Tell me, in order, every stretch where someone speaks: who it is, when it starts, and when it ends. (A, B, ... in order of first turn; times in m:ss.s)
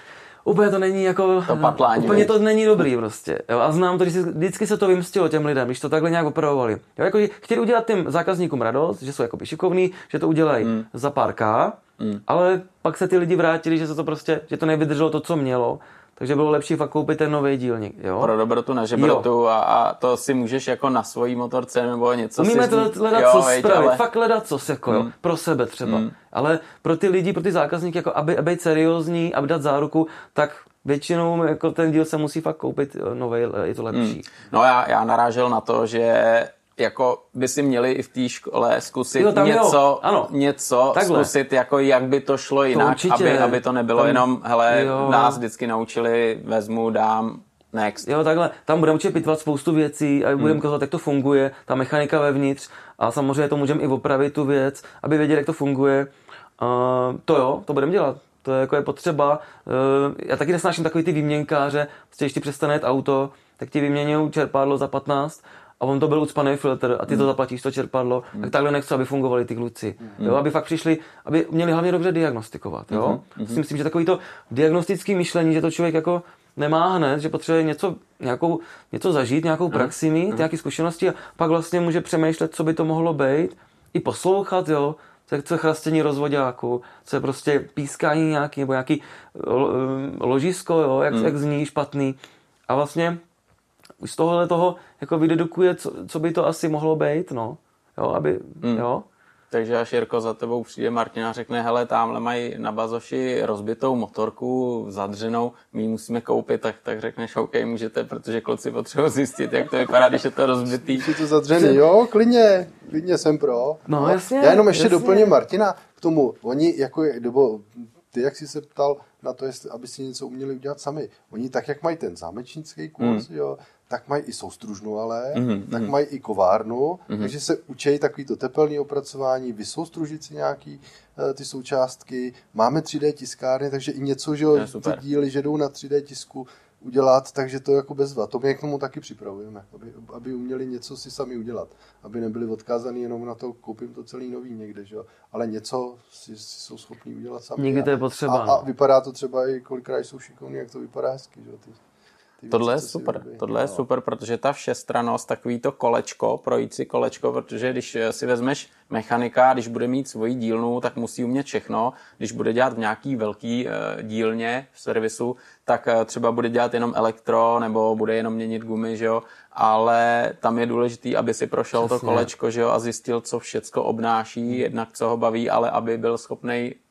0:00.4-0:18.3 A
0:01.5-0:02.3 B
0:10.6-0:10.9 B
0:18.2-0:24.0 B
0:19.0-0:19.3 A
0:22.4-0:34.2 A
0:25.8-0:26.1 B
0:33.9-0:48.1 B
0:39.2-0:40.3 A
0:40.9-0:41.3 A
0:42.7-0:45.4 A
0:48.0-1:32.2 A
1:12.9-1:13.6 B
1:19.7-1:20.4 B
1:32.7-1:33.2 A
1:34.0-1:39.0 A
1:38.6-1:38.9 B
1:39.5-1:51.1 B
1:50.8-2:31.8 C
1:53.9-1:55.3 A
2:03.0-2:03.2 B
2:05.3-2:05.9 B
2:14.5-2:15.0 B
2:27.6-2:28.6 A
2:32.4-2:33.8 C
2:32.5-2:56.8 B
2:51.8-2:52.3 A